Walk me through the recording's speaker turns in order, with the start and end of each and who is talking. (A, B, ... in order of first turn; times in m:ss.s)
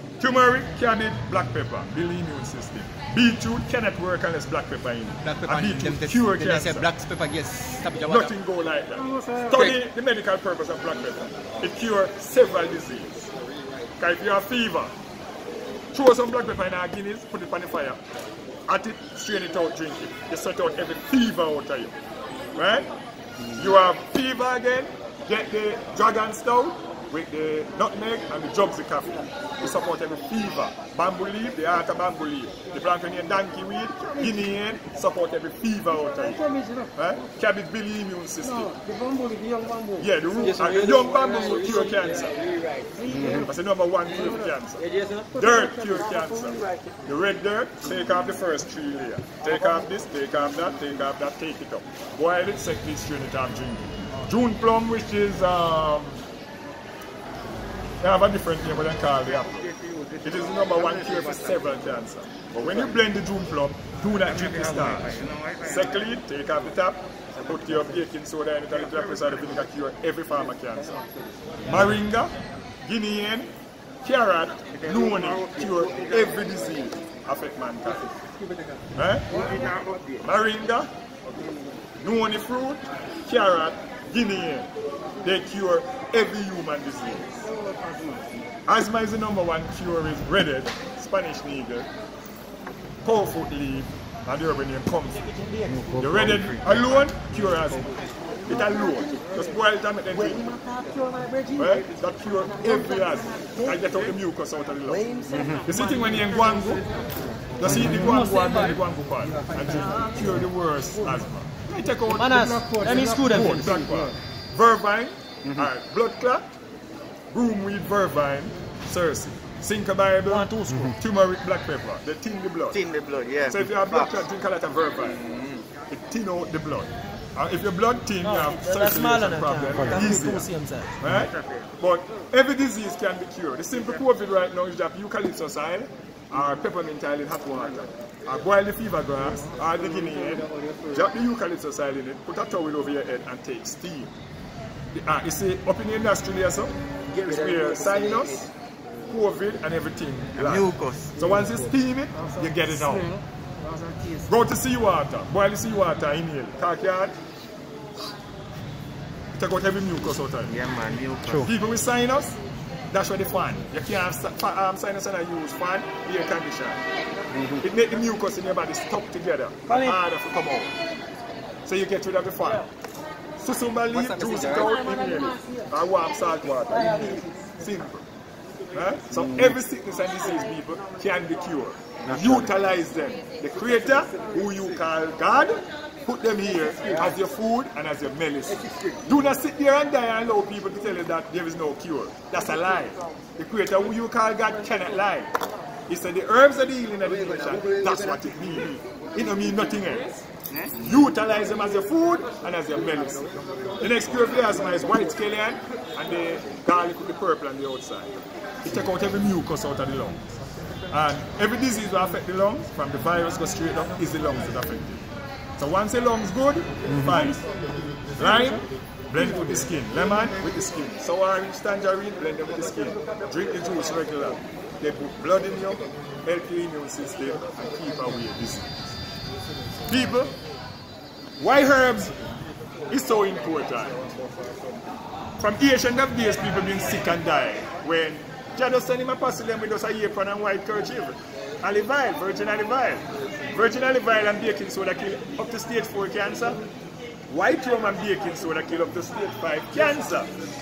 0:00.2-0:06.9 A
0:05.2-0:08.4 B
0:08.0-0:13.3 A
0:09.1-0:09.7 C
0:14.0-0:14.9 A
0:15.9-0:18.0 A
0:18.7-0:21.9 A
0:22.6-0:22.9 A
0:23.5-0:38.8 A
0:36.4-0:36.9 C
0:38.4-0:40.5 C
0:40.0-0:42.4 A
0:40.6-0:43.4 B
0:42.8-0:43.4 C
0:43.3-0:56.2 A
0:44.3-0:46.8 C
0:58.0-0:59.7 A
0:59.4-1:01.8 D
1:00.2-1:11.0 A
1:04.2-1:06.2 D
1:11.6-1:18.1 A
1:14.8-1:16.6 D
1:19.0-1:19.4 A
1:19.3-1:20.2 D
1:20.2-1:20.9 A
1:22.0-1:24.7 A
1:25.2-1:27.5 A
1:28.7-1:31.9 A
1:33.0-1:35.3 A
1:35.8-1:37.0 D
1:36.0-1:38.0 A
1:38.5-1:40.6 A
1:40.4-1:41.7 C
1:41.6-1:45.1 A
1:44.9-1:47.1 C
1:45.3-1:45.6 D
1:45.6-1:46.9 A
1:47.6-1:56.6 A
1:47.6-1:48.5 C
1:47.7-1:48.7 E
1:52.1-1:53.7 E
1:52.1-1:54.1 C
1:57.3-2:02.8 A
2:00.3-2:00.9 E
2:02.7-2:04.2 D
2:03.4-2:05.3 A
2:05.3-2:05.6 D
2:05.9-2:10.5 A
2:08.2-2:10.4 C
2:08.2-2:11.0 E
2:11.0-2:24.1 A
2:11.4-2:11.7 D
2:20.0-2:20.7 C
2:24.9-2:28.5 A
2:29.1-2:33.1 A
2:30.4-2:31.2 D
2:32.2-2:34.2 C
2:34.3-2:37.2 A
2:39.3-2:40.6 A
2:40.5-2:41.5 D
2:41.3-2:42.4 A
2:42.9-2:46.8 A
2:47.6-2:50.7 A
2:49.7-2:49.9 C
2:51.6-2:52.7 A
2:53.4-2:58.1 A
2:53.9-2:54.8 B
2:56.8-2:57.3 C
2:58.7-3:15.3 A
3:02.1-3:02.5 D
3:08.6-3:08.9 B
3:15.9-3:20.1 A
3:17.0-3:18.7 B
3:20.7-3:23.3 A
3:23.8-3:30.2 A
3:30.9-3:35.1 A
3:35.6-3:37.4 A
3:38.2-3:49.0 A
3:49.8-3:50.3 A
3:51.4-3:52.2 A
3:52.9-3:54.0 A
3:55.4-4:06.6 A
4:07.3-4:10.3 A